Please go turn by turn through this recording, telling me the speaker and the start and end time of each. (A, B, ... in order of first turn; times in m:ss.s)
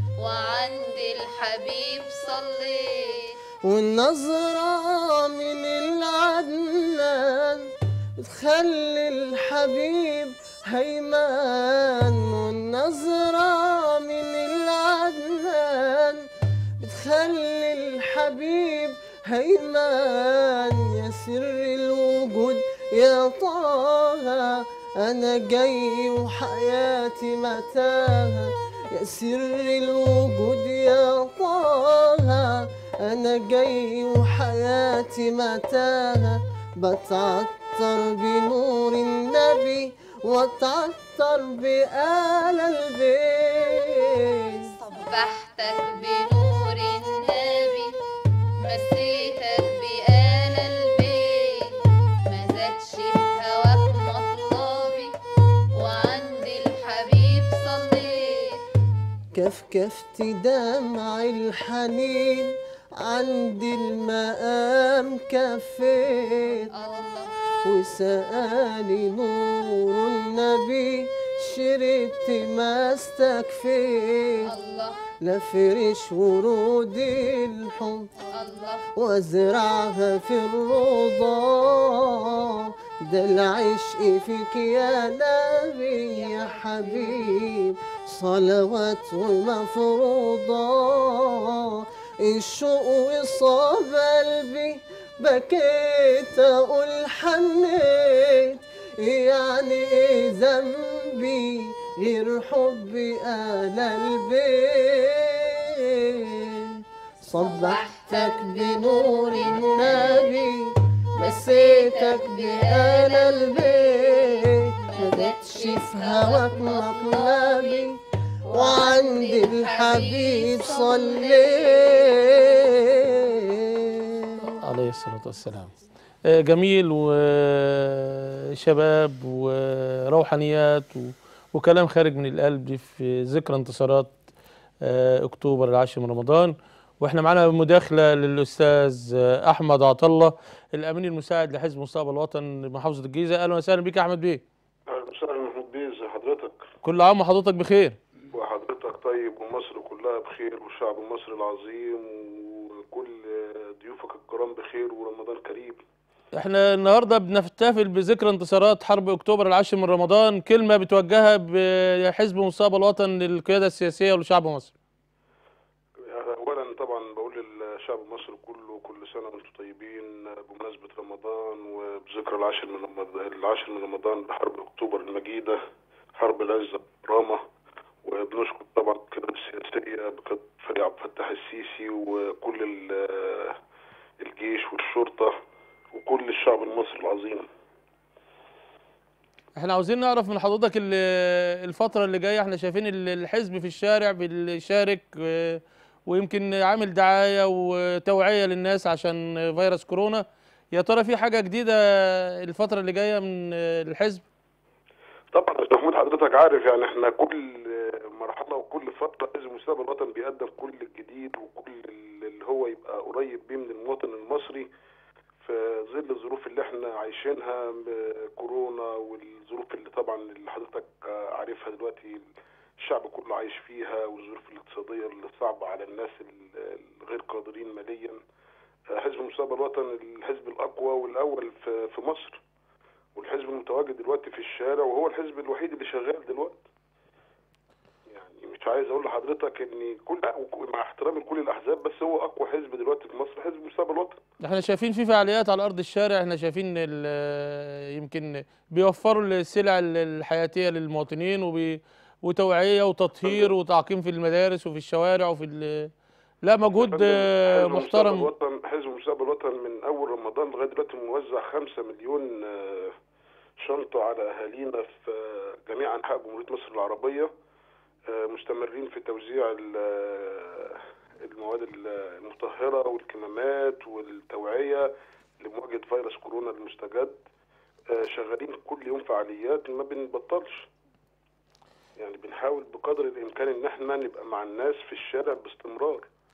0:00.2-0:03.4 A
0:03.6-0:16.3 B
0:16.8-0:44.7 B
0:44.9-0:47.9 A
0:48.6-0:55.2 A
0:55.7-0:58.6 A
0:59.3-1:06.7 B
1:06.7-1:07.3 A
1:07.6-1:14.5 B
1:14.4-1:15.1 A
1:15.2-1:18.1 B
1:18.3-1:18.9 A
1:19.0-2:04.6 B
1:47.4-1:50.4 A
1:51.2-1:57.9 A
1:58.4-2:02.8 A
2:04.5-2:05.7 C
2:06.3-2:14.2 C
2:14.8-2:24.4 C
2:24.9-2:26.6 D
2:26.8-2:28.0 C
2:28.3-2:35.8 D
2:36.4-2:44.8 C
2:46.1-2:55.6 D
2:56.2-2:57.4 D
2:58.0-3:03.6 D
3:04.2-3:05.4 D
3:05.9-3:07.5 D
3:09.6-3:24.2 C
3:25.3-3:34.7 D
3:35.4-3:42.3 D
3:42.8-3:48.2 D
3:48.9-3:52.4 D
3:53.2-3:56.7 D
3:58.1-4:04.2 D
4:04.4-4:15.9 C
4:13.2-4:13.5 D
4:16.4-4:18.3 C
4:16.8-4:23.0 D
4:23.6-4:27.3 D
4:28.1-4:37.2 D
4:37.9-4:40.7 D
4:42.0-4:46.1 D